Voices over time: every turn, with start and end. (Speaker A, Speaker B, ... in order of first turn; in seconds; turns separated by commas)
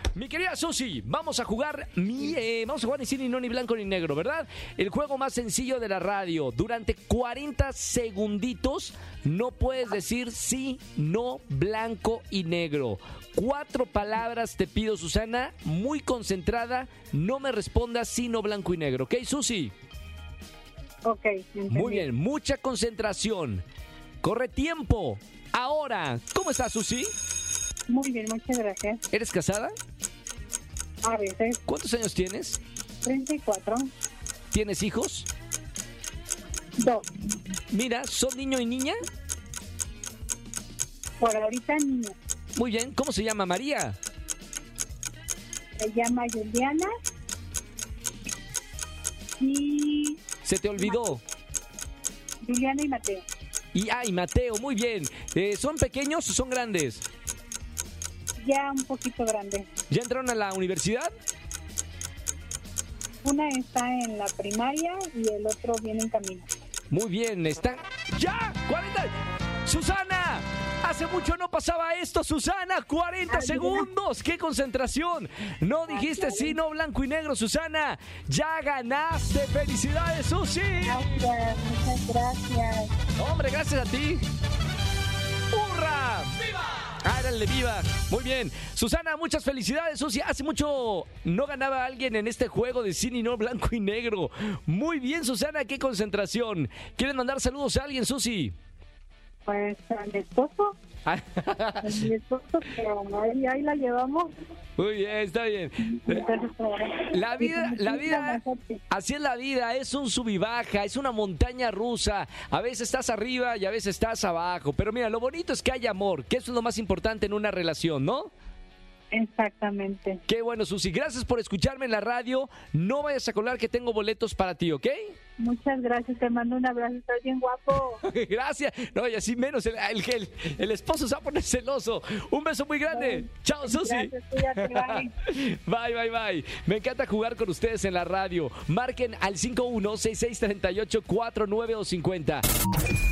Speaker A: 0.1-19.7, Speaker B: 21.0-22.1, Speaker A: 21.7-23.6, Speaker A: 24.2-27.1, Speaker B: 27.9-29.0, Speaker A: 29.1-29.8, Speaker B: 31.0-31.6, Speaker A: 31.7-32.6, Speaker B: 33.0-33.9, Speaker A: 34.5-35.3, Speaker B: 36.8-37.1, Speaker A: 37.7-39.0, Speaker B: 41.2-42.2, Speaker A: 42.6-44.0, Speaker B: 45.8-46.9, Speaker B: 49.4-50.2, Speaker A: 50.4-51.2, Speaker B: 52.4-53.2, Speaker A: 53.7-57.0, Speaker B: 58.4-59.7, Speaker A: 59.9-61.1, Speaker B: 63.2-66.5, Speaker A: 66.9-69.1, Speaker A: 69.7-81.2, Speaker B: 73.3-73.9, Speaker B: 75.9-76.6, Speaker B: 80.8-82.9, Speaker A: 83.2-84.2, Speaker A: 85.5-86.4, Speaker A: 87.0-98.5, Speaker B: 99.5-100.8, Speaker A: 101.1-102.0, Speaker B: 101.8-104.3, Speaker A: 104.8-106.2, Speaker B: 105.8-108.8, Speaker A: 107.1-118.3, Speaker B: 119.1-120.2, Speaker A: 120.3-125.1, Speaker B: 125.4-128.0, Speaker A: 128.0-142.4, Speaker B: 132.9-135.1